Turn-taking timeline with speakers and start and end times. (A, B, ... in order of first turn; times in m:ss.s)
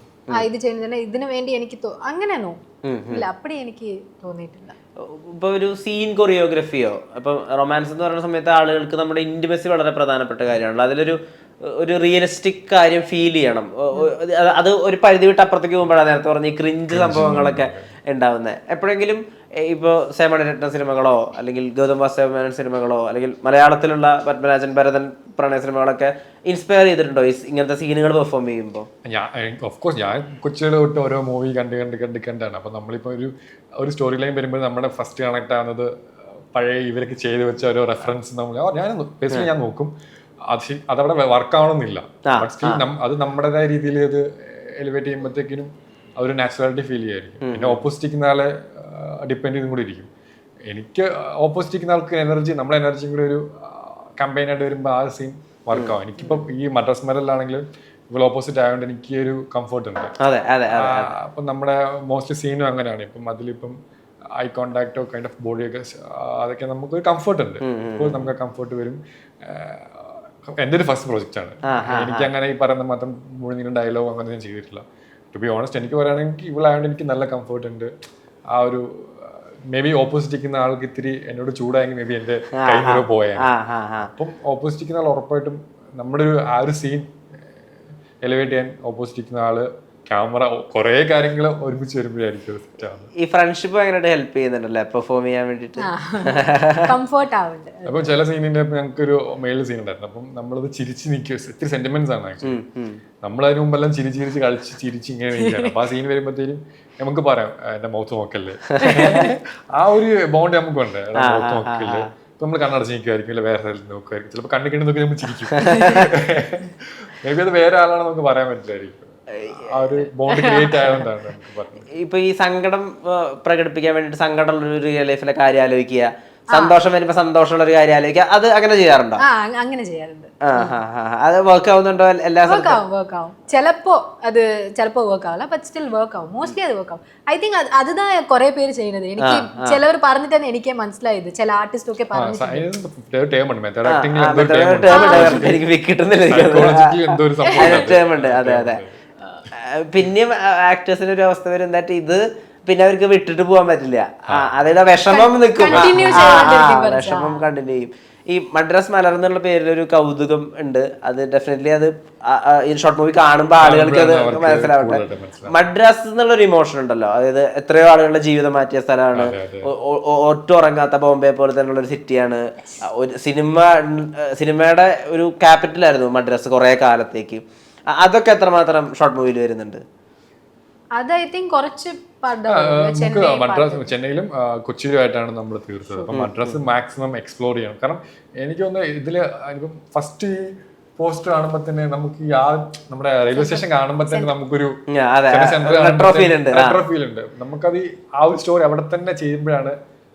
0:00.3-0:04.8 A
0:02.8-0:03.3 B
0:05.0-0:28.9 B
0:16.9-0:18.0 C
0:17.2-0:17.5 A
0:29.1-0:35.9 C
0:36.5-0:39.9 C
0:40.5-0:50.1 C
0:42.3-0:42.8 B
0:47.4-0:47.9 B
0:50.7-1:00.2 C
0:55.7-0:56.0 B
1:00.2-1:01.1 B
1:00.7-1:03.8 C
1:04.4-1:17.9 C
1:07.6-1:08.3 B
1:11.7-1:12.3 B
1:18.5-1:23.5 C
1:22.6-1:24.1 B
1:24.0-1:27.1 C
1:28.2-1:33.1 C
1:33.2-1:36.9 B
1:35.8-1:38.2 A
1:37.9-1:42.6 C
1:42.4-1:43.0 B
1:43.2-2:01.9 C
1:45.4-1:45.8 A
1:48.8-1:49.3 B
1:48.8-1:49.3 A
1:51.2-1:52.1 B
1:55.5-1:56.1 B
2:00.3-2:01.0 A
2:01.9-2:09.2 B
2:09.2-2:10.8 A
2:10.4-2:12.8 B
2:12.5-2:22.7 A
2:19.2-2:19.8 B
2:22.1-2:25.6 C
2:23.8-2:28.8 B
2:24.9-2:25.6 A
2:26.3-2:29.0 C
2:27.5-2:27.9 A
2:29.5-2:59.8 B
2:35.0-2:37.4 A
2:35.7-2:36.5 C
2:43.6-2:45.6 C
2:49.1-2:49.7 C
3:01.0-3:03.9 A
3:02.5-3:14.8 C
3:06.1-3:06.6 B
3:13.3-3:14.3 A
3:14.9-3:16.8 B
3:15.3-3:19.8 C